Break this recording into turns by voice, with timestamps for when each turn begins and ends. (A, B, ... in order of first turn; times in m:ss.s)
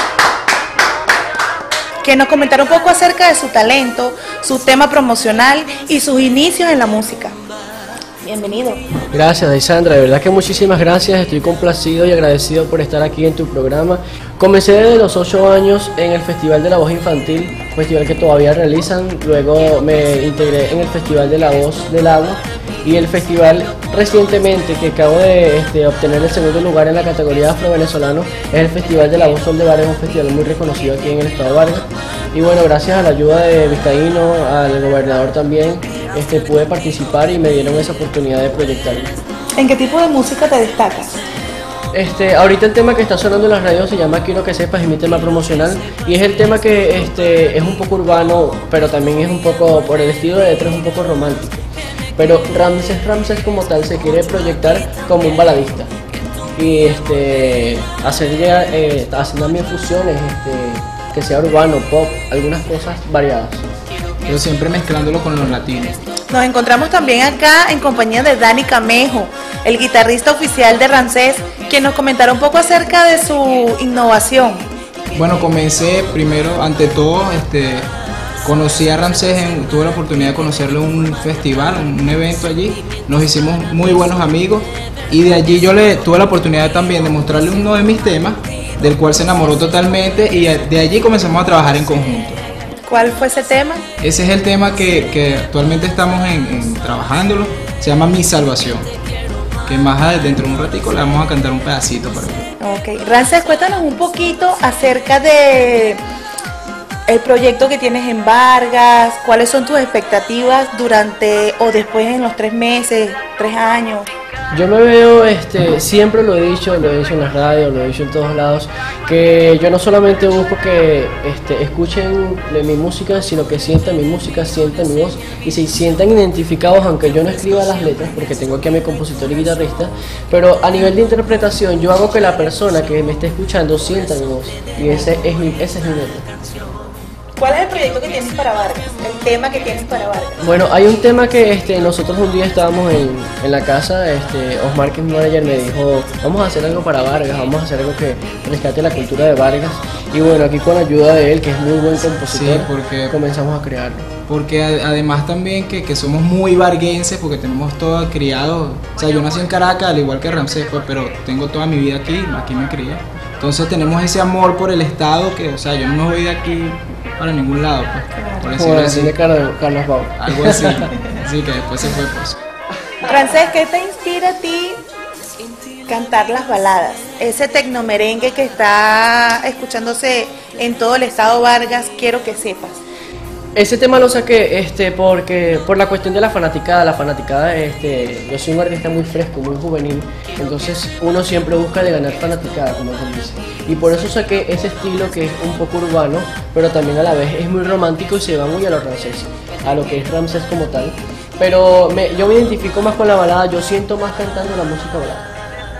0:02.0-0:07.4 A
0:08.2-0:08.8 A
0:09.1-0:39.1 B
0:39.6-0:41.2 A
0:41.9-0:55.9 B
0:56.6-1:03.7 B
1:04.3-1:06.0 C
1:06.3-1:14.7 A
1:15.1-1:17.9 C
1:18.4-1:32.4 C
1:32.9-1:33.8 A
1:34.0-1:38.9 C
1:39.7-1:42.5 C
1:42.6-1:46.0 A
1:47.1-1:54.1 A
1:54.5-2:16.3 B
2:17.4-2:20.4 A
2:20.4-2:34.1 B
2:32.2-2:33.2 C
2:34.3-2:49.2 C
2:48.2-2:48.5 A
2:48.6-2:50.9 B
2:50.2-2:52.4 C
2:53.0-2:54.8 A
2:55.9-3:02.8 A
3:03.6-3:25.3 B